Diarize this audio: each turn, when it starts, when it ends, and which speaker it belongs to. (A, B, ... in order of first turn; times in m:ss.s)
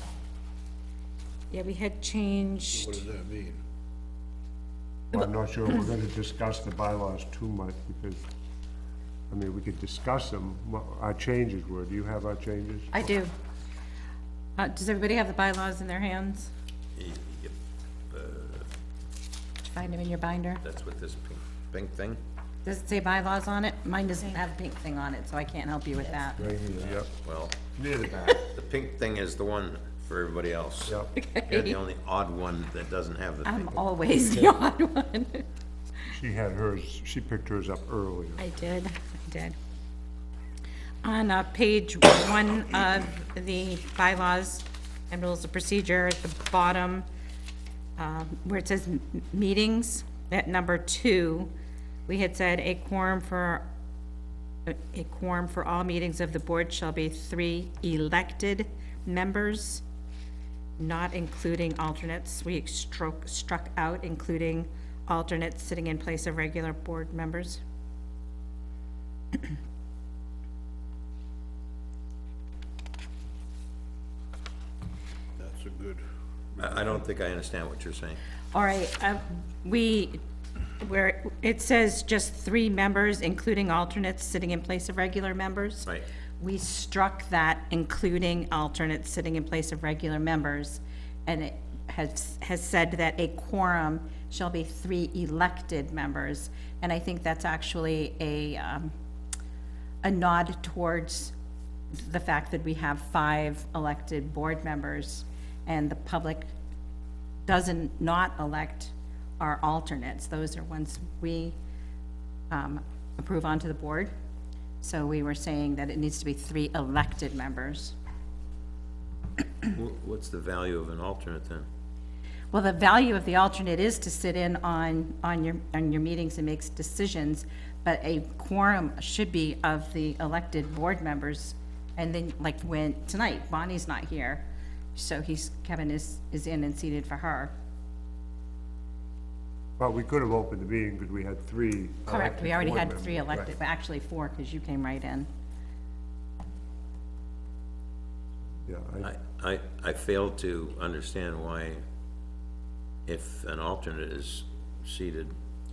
0:01.5-0:03.0 A
0:02.7-0:03.6 B
0:05.1-0:08.3 C
0:09.3-0:13.1 C
0:12.9-0:13.3 A
0:14.6-0:16.5 A
0:17.0-0:17.5 D
0:18.1-0:18.7 D
0:19.7-0:20.6 A
0:20.6-0:22.2 D
0:22.6-0:26.4 A
0:26.4-0:27.1 C
0:26.8-0:27.6 D
0:27.8-0:28.5 C
0:28.4-0:33.8 D
0:30.9-0:31.1 C
0:31.1-0:31.8 A
0:33.4-0:35.5 A
0:34.2-0:34.6 C
0:36.1-0:38.4 C
0:38.4-0:39.6 A
0:41.0-0:47.1 A
0:48.0-0:51.5 A
0:52.1-0:53.6 A
0:54.7-0:59.8 A
1:00.8-1:07.6 A
1:15.4-1:17.0 B
1:16.6-1:18.2 D
1:18.5-1:20.2 A
1:20.8-1:25.9 A
1:26.4-1:38.9 A
1:40.0-1:41.3 A
1:41.9-1:46.5 A
1:47.5-1:51.6 A
1:52.5-1:54.1 A
1:54.8-1:58.0 A
1:59.7-2:01.7 D
2:02.5-2:14.4 A
2:15.0-2:17.5 A
2:19.8-2:23.6 C
2:22.1-2:25.3 A
2:28.7-2:29.1 C
2:29.0-2:31.8 D
2:33.1-2:35.3 D